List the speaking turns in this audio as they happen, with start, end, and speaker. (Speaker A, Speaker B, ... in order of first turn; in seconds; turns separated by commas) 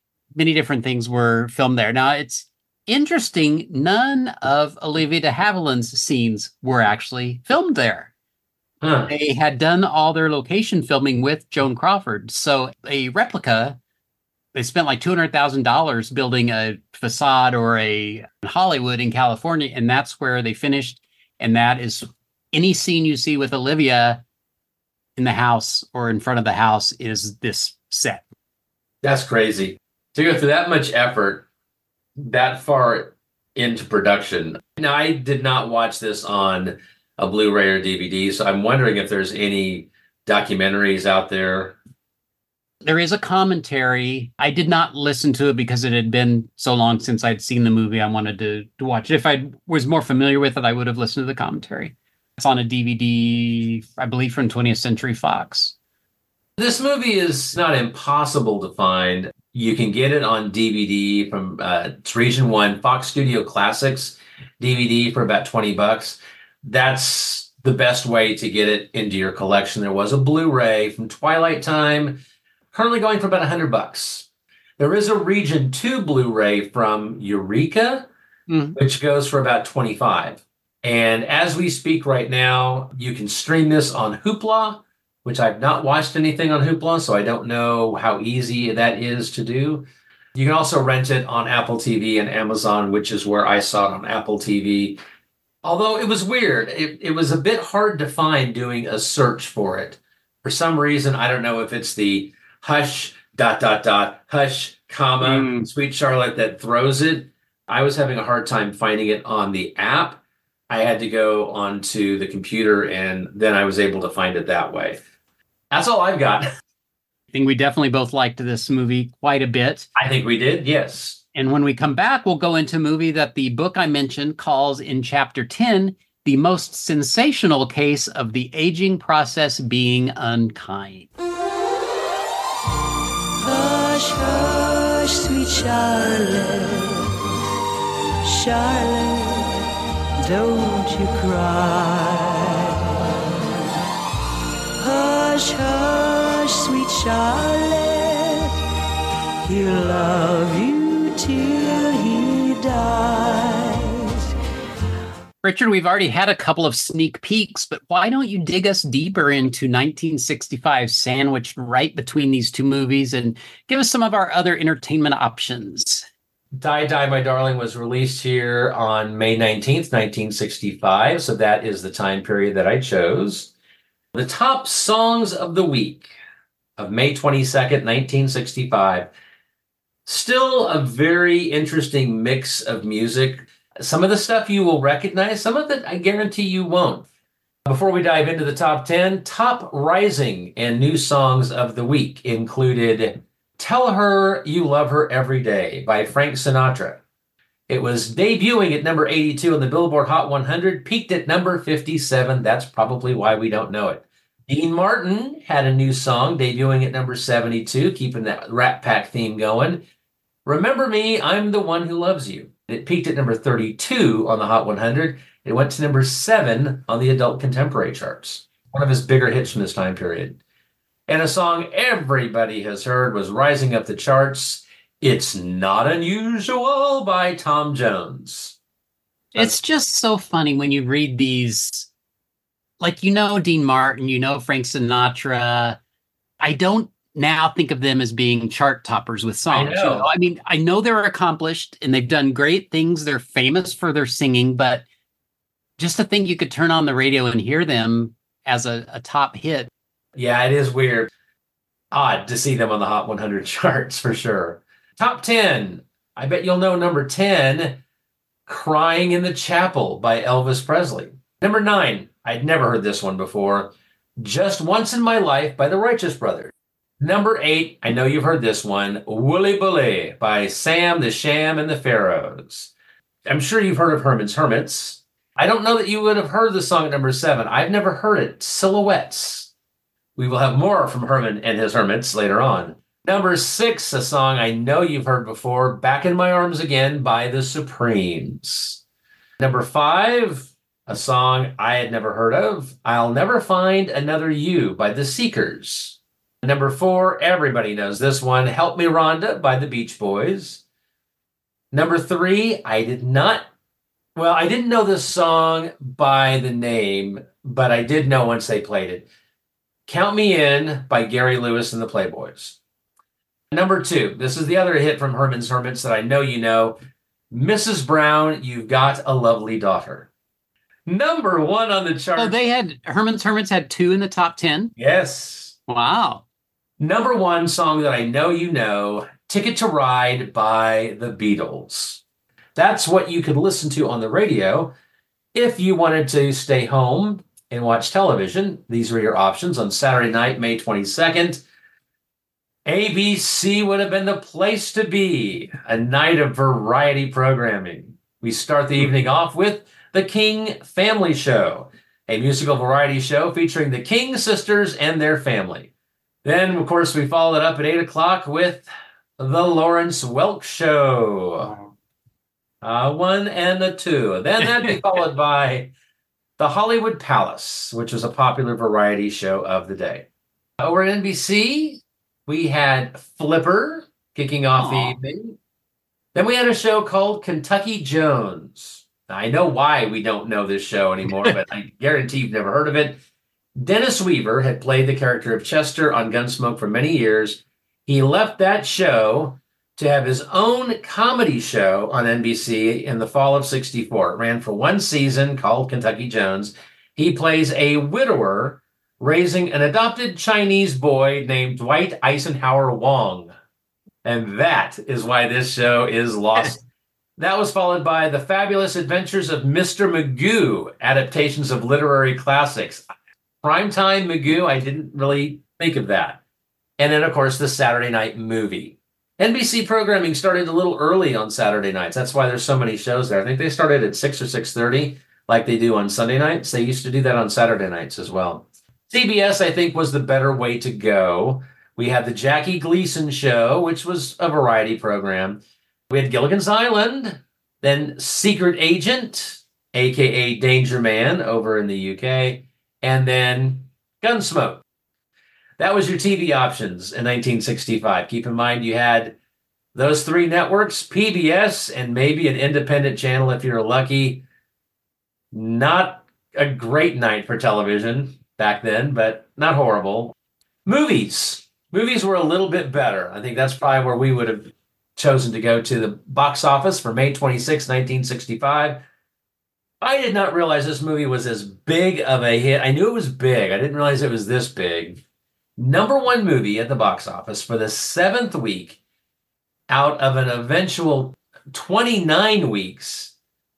Speaker A: 0.3-8.1, Speaker B: 8.8-9.1, Speaker A: 9.1-13.8, Speaker A: 14.5-24.2, Speaker A: 25.2-28.2, Speaker B: 29.0-31.4, Speaker B: 32.2-41.8, Speaker A: 42.8-55.7, Speaker B: 56.6-72.2, Speaker B: 72.7-74.3, Speaker B: 74.8-78.1, Speaker A: 78.5-78.8, Speaker B: 78.8-95.0, Speaker B: 95.6-115.0, Speaker A: 105.2-105.6, Speaker B: 115.7-116.5, Speaker A: 117.3-119.9, Speaker B: 120.0-121.2, Speaker A: 121.3-131.1, Speaker C: 133.4-137.1, Speaker C: 138.2-139.6, Speaker C: 140.2-142.8, Speaker C: 144.8-148.5, Speaker C: 149.4-154.1, Speaker A: 155.4-166.0, Speaker B: 166.5-173.5, Speaker B: 174.1-176.1, Speaker B: 176.8-179.1, Speaker B: 180.1-187.1, Speaker B: 187.7-197.0, Speaker B: 197.7-209.8, Speaker B: 210.4-220.4, Speaker B: 221.1-228.6, Speaker A: 229.3-231.9, Speaker A: 232.8-235.8, Speaker A: 236.4-244.8, Speaker B: 239.5-240.1, Speaker A: 245.8-249.7, Speaker B: 250.1-251.1, Speaker B: 251.9-257.8, Speaker B: 258.5-272.7, Speaker B: 273.2-279.5, Speaker B: 280.1-288.8, Speaker B: 289.4-300.6, Speaker B: 301.7-303.5, Speaker B: 304.1-309.1, Speaker B: 309.9-312.6, Speaker B: 313.5-316.8, Speaker B: 317.3-320.1, Speaker B: 320.9-322.3, Speaker A: 322.2-324.7, Speaker B: 324.8-325.6, Speaker A: 325.7-326.2, Speaker B: 326.8-332.0, Speaker B: 332.5-334.7, Speaker B: 335.3-341.4, Speaker B: 342.6-355.7, Speaker B: 356.2-361.5, Speaker B: 362.6-365.7, Speaker B: 366.4-370.1, Speaker B: 370.6-375.4, Speaker A: 374.6-375.0, Speaker B: 376.1-383.0, Speaker B: 383.6-403.3, Speaker B: 404.0-406.6, Speaker B: 407.2-412.9, Speaker B: 413.4-416.2, Speaker B: 416.8-444.6, Speaker B: 445.6-449.2, Speaker B: 449.7-454.2, Speaker B: 455.3-460.1, Speaker B: 460.6-468.8, Speaker B: 469.8-475.0, Speaker B: 475.6-478.8, Speaker B: 479.7-483.1